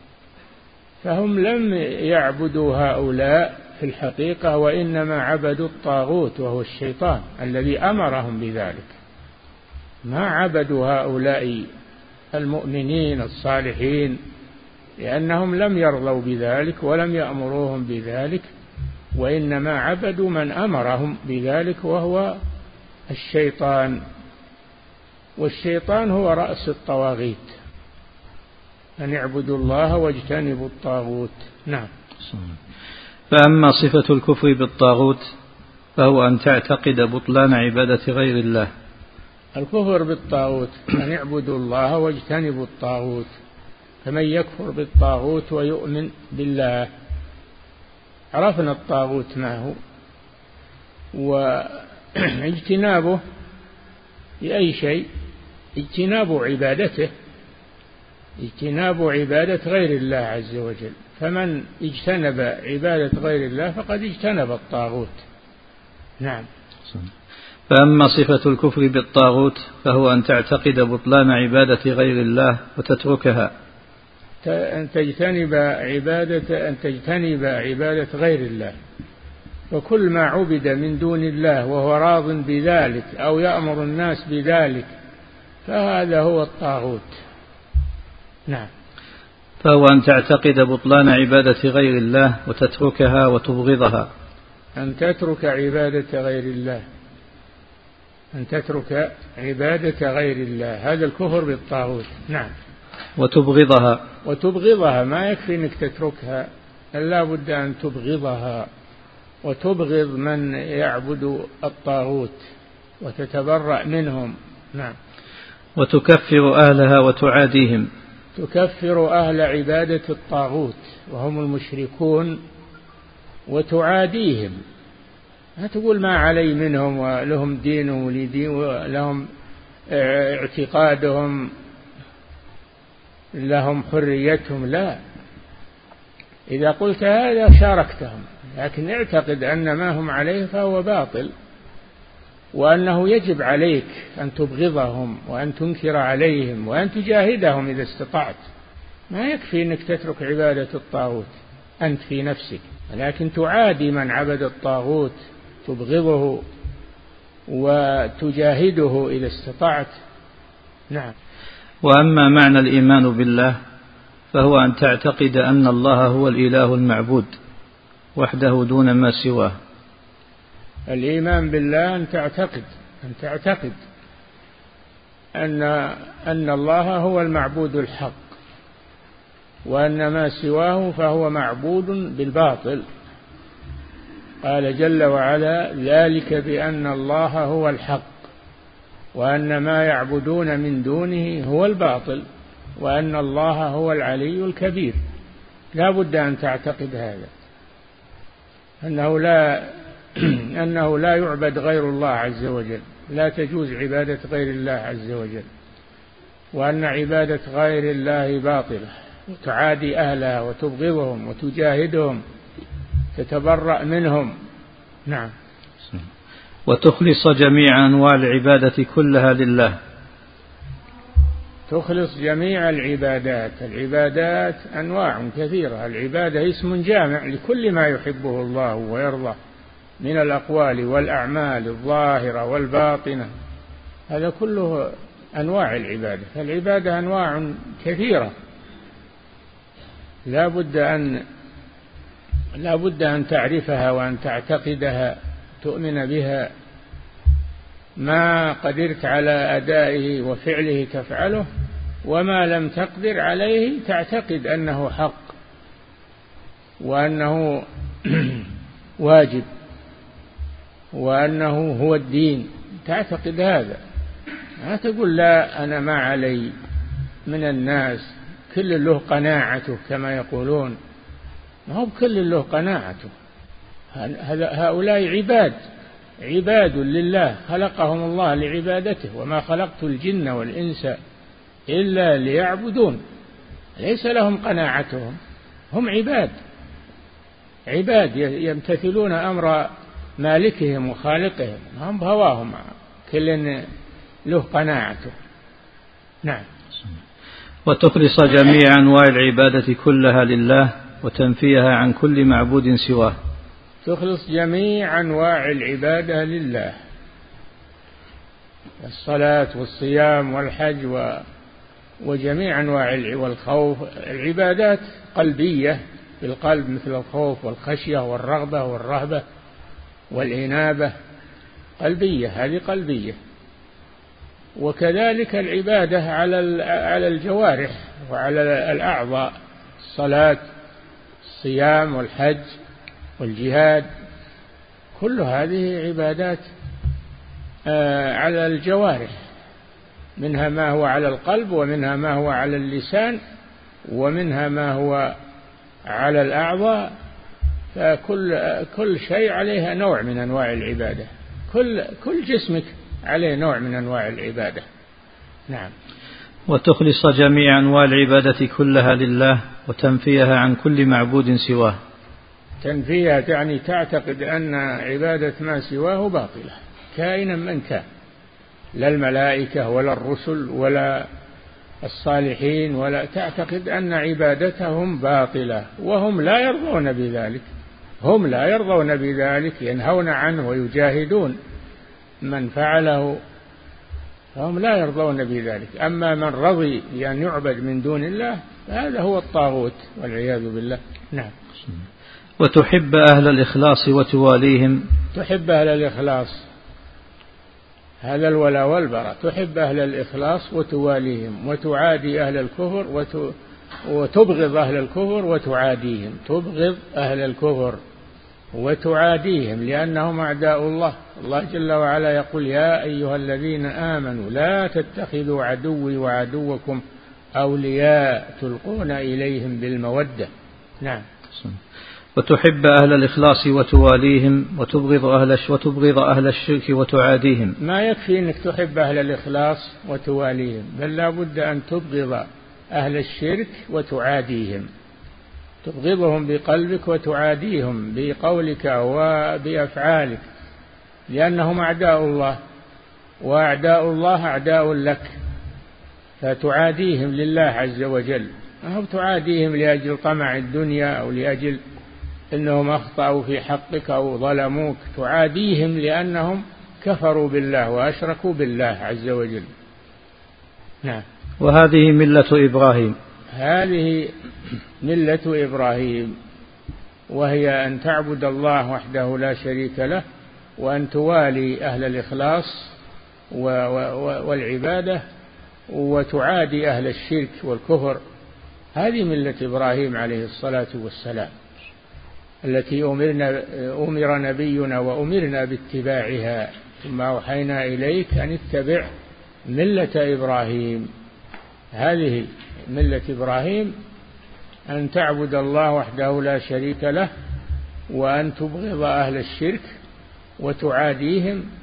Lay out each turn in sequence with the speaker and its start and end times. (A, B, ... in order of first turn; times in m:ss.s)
0:01.0-0:09.0 A
0:10.0-0:11.7 A
0:12.3-0:14.2 A
0:15.0-0:18.5 A
0:19.1-0:22.4 A
0:23.1-0:24.0 A
0:25.4-0:27.5 A
0:29.0-0:31.9 A
0:32.3-0:32.6 B
0:33.3-0:35.2 B
0:36.0-0:38.7 B
0:39.6-0:43.3 A
0:44.0-0:46.9 A
0:48.3-0:49.8 A
0:51.1-0:53.2 A
0:54.4-0:55.0 A
0:55.8-0:57.1 A
0:58.4-1:05.2 A
1:06.2-1:06.4 A
1:07.7-1:13.5 B
1:14.4-1:18.7 A
1:19.7-1:24.9 A
1:25.6-1:27.2 A
1:29.6-1:34.1 B
1:34.8-1:36.8 A
1:38.3-1:42.5 A
1:43.2-1:44.0 B
1:44.2-1:48.7 A
1:49.4-1:52.4 A
1:53.0-1:55.0 A
1:55.8-1:57.9 B
1:58.3-2:02.4 A
2:03.5-2:04.6 A
2:05.6-2:09.2 A
2:09.9-2:11.5 A
2:13.4-2:15.0 A
2:16.5-2:21.3 A
2:22.5-2:28.4 A
2:29.1-2:36.4 A
2:37.5-2:39.9 A
2:41.8-2:43.6 B
2:44.3-2:47.3 B
2:48.2-2:49.5 B
2:50.9-2:53.8 A
2:55.4-2:58.2 A
2:59.6-3:02.8 A
3:04.4-3:08.1 A
3:09.1-3:12.2 A
3:12.8-3:15.0 A
3:15.7-3:17.3 A
3:18.8-3:25.4 A
3:26.5-3:32.2 A
3:33.1-3:34.3 A
3:36.6-3:39.7 B
3:41.7-3:49.4 A
3:50.0-3:53.3 A
3:54.1-3:58.3 A
4:00.3-4:01.2 A
4:02.6-4:06.5 A
4:08.0-4:11.5 A
4:12.0-4:15.3 A
4:16.8-4:19.5 A
4:20.9-4:23.8 A
4:24.6-4:26.5 A
4:27.3-4:30.8 A
4:31.7-4:33.1 A
4:33.9-4:35.6 A
4:36.2-4:41.0 A
4:41.7-4:43.0 A
4:43.8-4:45.2 A
4:45.7-4:46.3 A
4:47.7-4:49.7 A
4:50.2-4:53.6 A
4:54.3-4:55.1 A
4:57.6-5:03.1 B
5:03.8-5:06.7 A
5:08.8-5:11.2 A
5:12.0-5:19.2 A
5:20.1-5:20.9 A
5:21.8-5:23.2 A
5:24.6-5:29.3 A
5:29.8-5:30.4 A
5:31.2-5:32.5 A
5:33.2-5:33.9 A
5:34.9-5:36.4 A
5:37.7-5:39.1 A
5:40.2-5:43.2 A
5:43.9-5:45.1 A
5:45.9-5:46.9 A
5:47.7-5:54.6 A
5:56.5-6:01.8 B
6:02.6-6:07.8 A
6:08.8-6:11.0 A
6:11.8-6:17.4 A
6:18.0-6:21.4 A
6:22.2-6:23.2 A
6:24.3-6:31.3 A
6:32.4-6:34.8 B
6:35.1-6:36.4 A
6:38.0-6:43.3 A
6:43.9-6:47.8 A
6:48.5-6:56.8 A
6:57.4-7:00.3 A
7:02.2-7:07.6 B
7:07.6-7:14.7 A
7:15.6-7:20.2 A
7:21.1-7:22.4 A
7:23.2-7:25.1 A
7:26.2-7:31.6 A
7:32.3-7:39.5 A
7:41.4-7:42.9 B
7:43.3-7:44.1 A
7:44.8-7:46.1 A
7:47.1-7:50.0 A
7:50.6-7:52.7 A
7:53.3-7:55.0 A
7:55.7-7:58.0 A
7:58.7-8:01.3 A
8:02.4-8:08.9 A
8:09.5-8:10.9 A
8:11.7-8:13.7 A
8:14.7-8:17.1 A
8:17.9-8:19.7 A
8:20.4-8:21.4 A